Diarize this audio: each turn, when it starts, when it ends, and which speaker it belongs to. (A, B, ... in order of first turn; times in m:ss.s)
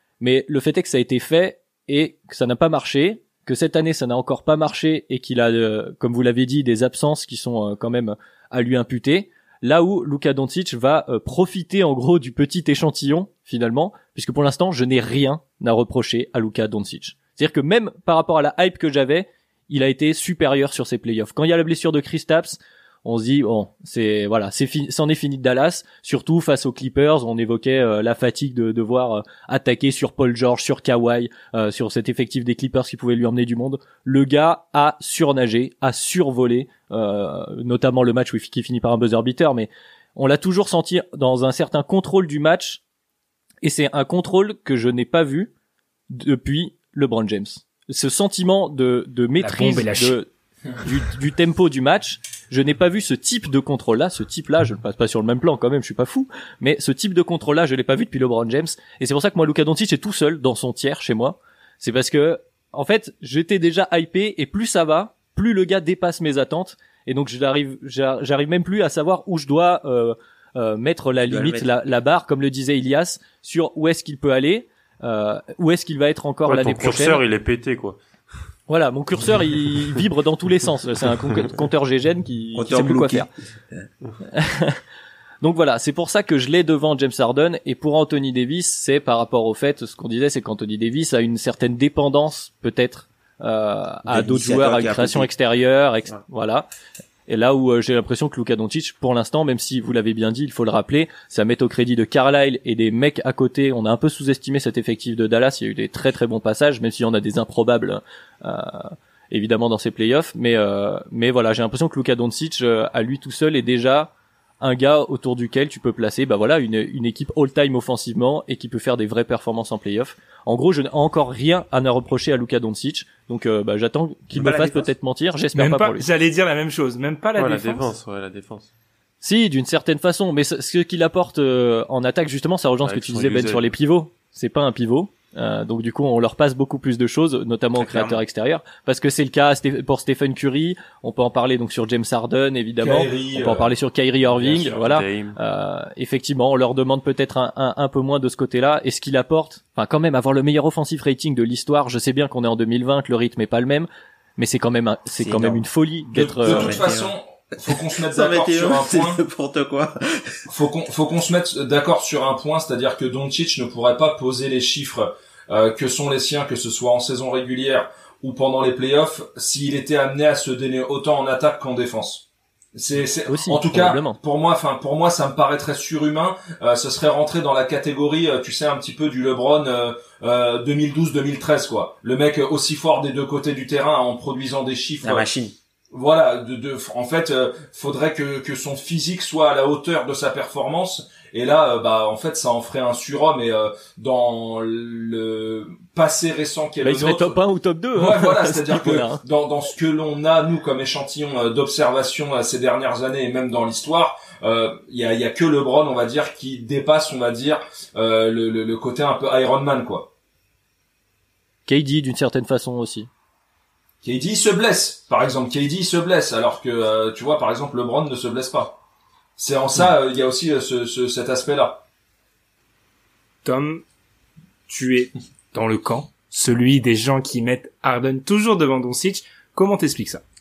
0:00.2-0:42.8 A
0:43.6-0:45.5 A
0:46.1-1:17.2 A
0:49.4-0:50.2 B
1:11.2-1:11.8 C
1:16.4-1:18.0 D
1:18.7-1:23.3 A
1:22.5-1:23.8 C
1:24.3-1:24.8 A
1:25.4-1:36.7 A
1:34.0-1:35.3 C
1:37.3-2:06.1 A
2:04.3-2:04.9 C
2:05.5-2:07.9 B
2:07.4-2:08.7 D
2:09.2-2:36.8 A
2:12.8-2:13.7 D
2:22.8-2:23.7 E
2:24.3-2:25.4 D
2:35.2-2:35.6 C
2:36.2-2:37.1 C
2:36.4-2:39.2 E
2:37.6-2:40.4 C
2:40.5-3:05.3 E
2:53.3-2:54.2 A
3:05.0-3:05.5 C
3:05.9-3:17.4 E
3:16.8-3:19.2 A
3:17.9-3:30.1 E
3:31.7-3:33.1 A
3:34.0-3:38.8 E
3:39.4-3:41.8 E
3:43.4-3:43.8 B
3:44.7-3:50.2 B